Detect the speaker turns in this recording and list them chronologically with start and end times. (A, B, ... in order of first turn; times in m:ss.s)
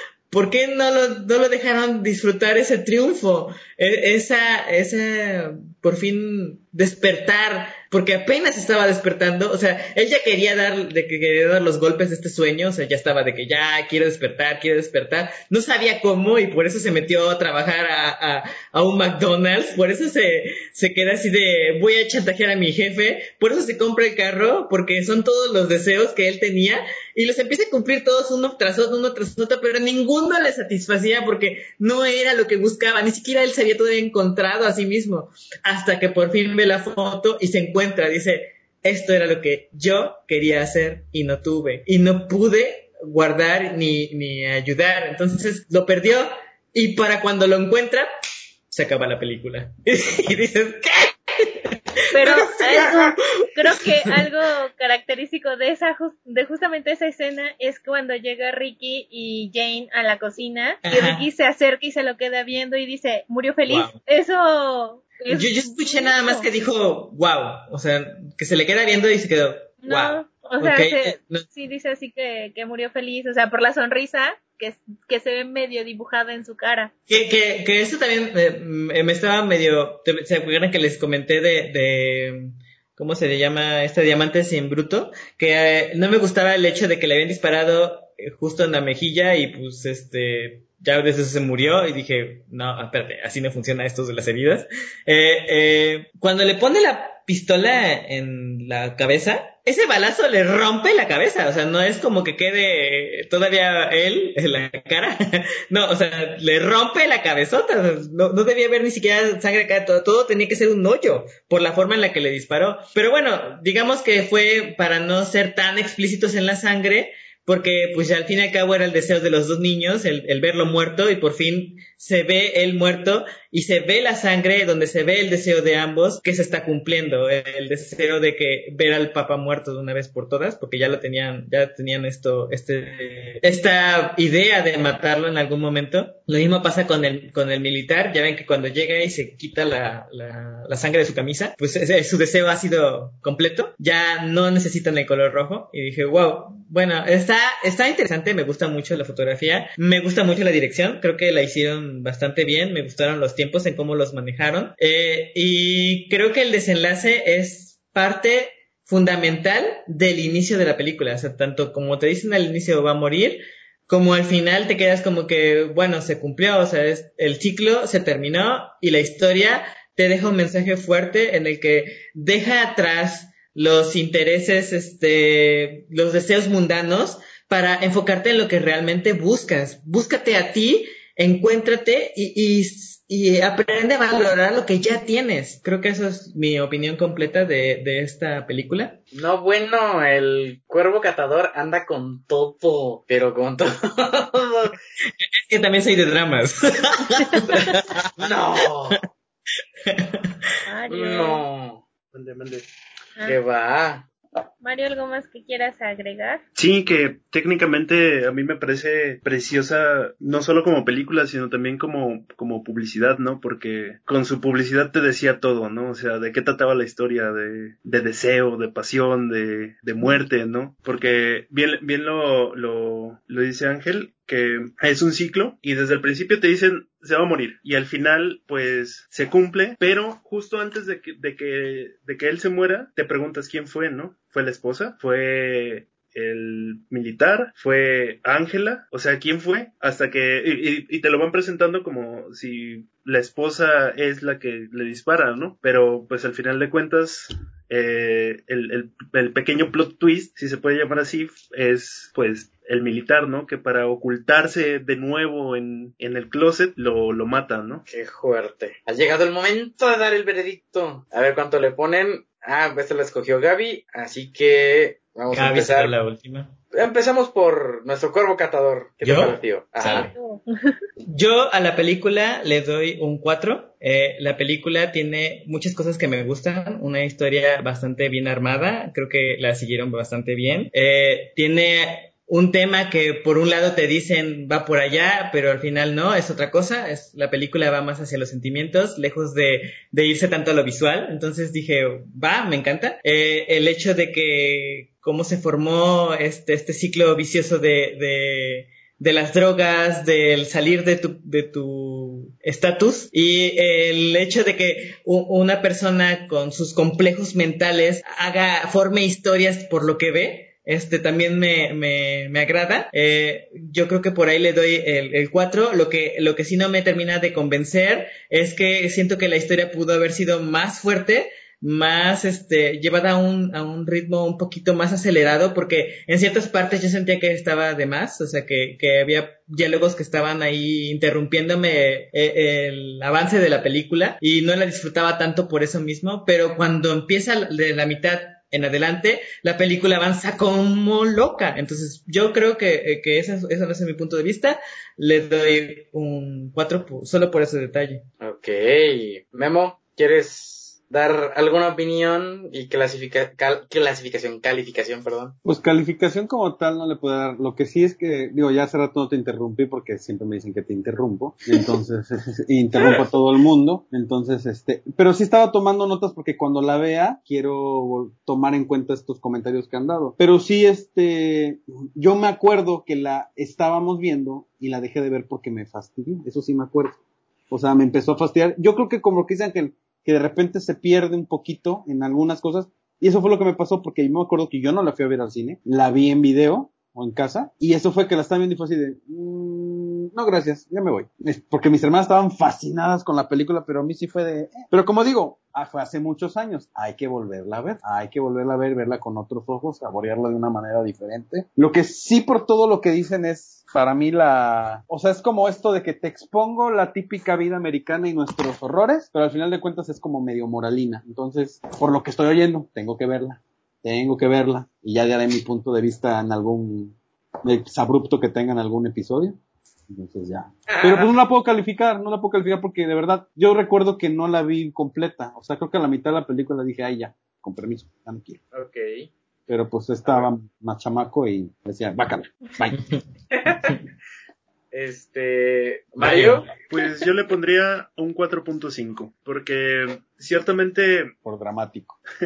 0:00.3-0:48.1 A
0:48.7-0:53.5 A
0:52.1-1:06.5 B
1:00.8-1:01.2 A
1:03.7-1:04.0 A
1:05.3-1:11.4 A
1:09.8-1:16.9 B
1:17.1-3:09.0 A
3:09.1-3:14.7 C
3:15.2-3:19.0 A
3:17.3-3:17.7 B
3:18.2-3:19.0 C
3:19.8-3:20.4 A
3:20.6-3:21.4 B
3:20.9-3:21.8 C
3:22.1-3:22.7 D
3:23.2-3:24.1 C
3:24.6-3:26.4 B
3:26.5-4:17.8 D
4:17.9-4:25.9 C
4:25.3-4:26.5 A
4:26.7-4:30.1 C
4:29.0-4:30.1 A
4:29.9-4:30.8 B
4:31.1-5:48.0 A
5:48.2-5:55.4 C
5:55.4-6:17.0 E
6:02.8-6:03.1 C
6:17.5-6:59.4 E
6:59.9-7:08.4 E
7:00.7-7:01.1 C
7:08.5-7:09.1 C
7:09.5-7:12.8 E
7:13.3-7:13.8 C
7:14.7-7:16.6 C
7:16.0-7:21.1 D
7:21.2-7:22.0 E